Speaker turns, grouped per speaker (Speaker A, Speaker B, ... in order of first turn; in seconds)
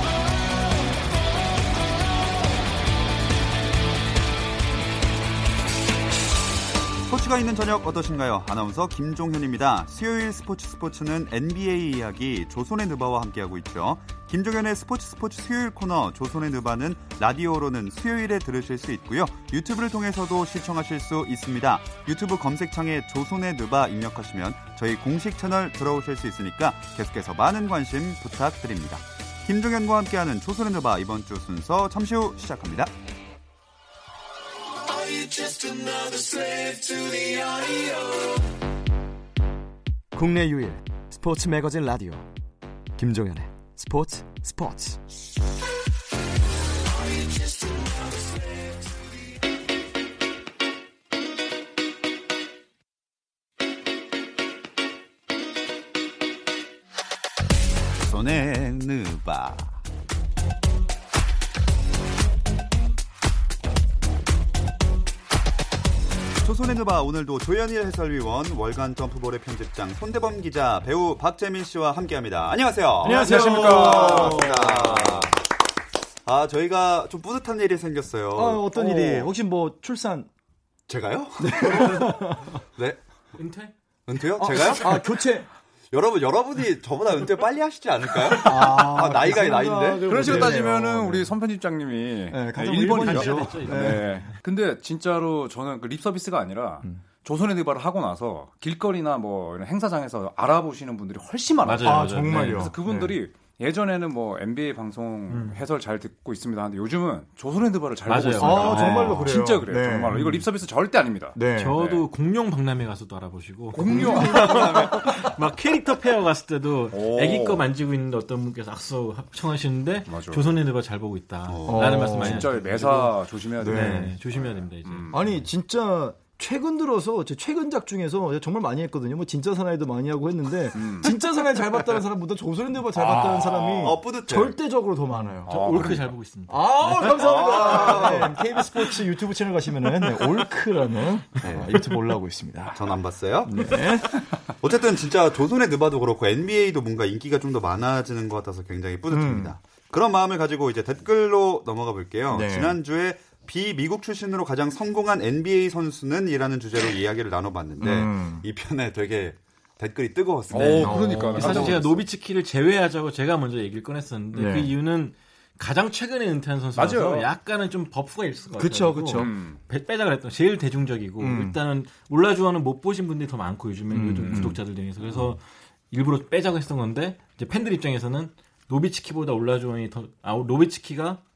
Speaker A: 7.0-32.9, 58.0-59.8, 66.4-75.4, 76.2-79.3, 80.9-83.0, 84.1-85.1, 85.9-90.6, 121.5-122.1, 132.9-134.5, 137.0-138.3, 141.4-141.7, 142.7-161.8
Speaker B: 34.9-38.3, 40.1-42.3, 43.0-45.0, 47.1-48.9
Speaker C: 73.0-74.7, 90.0-112.0, 113.7-115.4, 116.9-117.6, 120.1-120.5, 122.1-125.2, 130.7-131.1, 135.4-136.1, 160.5-162.0, 166.7-167.3, 169.1-169.6, 174.2-174.6
Speaker D: 73.0-75.3, 78.3-80.3, 81.4-82.5, 84.4-85.5, 88.3-91.3, 92.3-94.2, 101.8-103.1, 108.3-110.2, 111.3-111.8, 113.9-115.1, 121.7-124.1, 125.1-135.8, 136.5-142.9, 143.4-144.2, 149.1-149.5, 152.3-152.8, 157.8-158.4, 160.5-161.7, 164.3-164.7, 168.6-169.3, 171.2-171.6, 173.9-174.6
Speaker E: 83.3-83.7, 92.9-94.4, 101.6-102.8, 105.3-105.6, 108.1-109.3, 110.1-110.4, 111.5-123.0, 123.6-125.4, 135.1-138.3, 160.6-181.2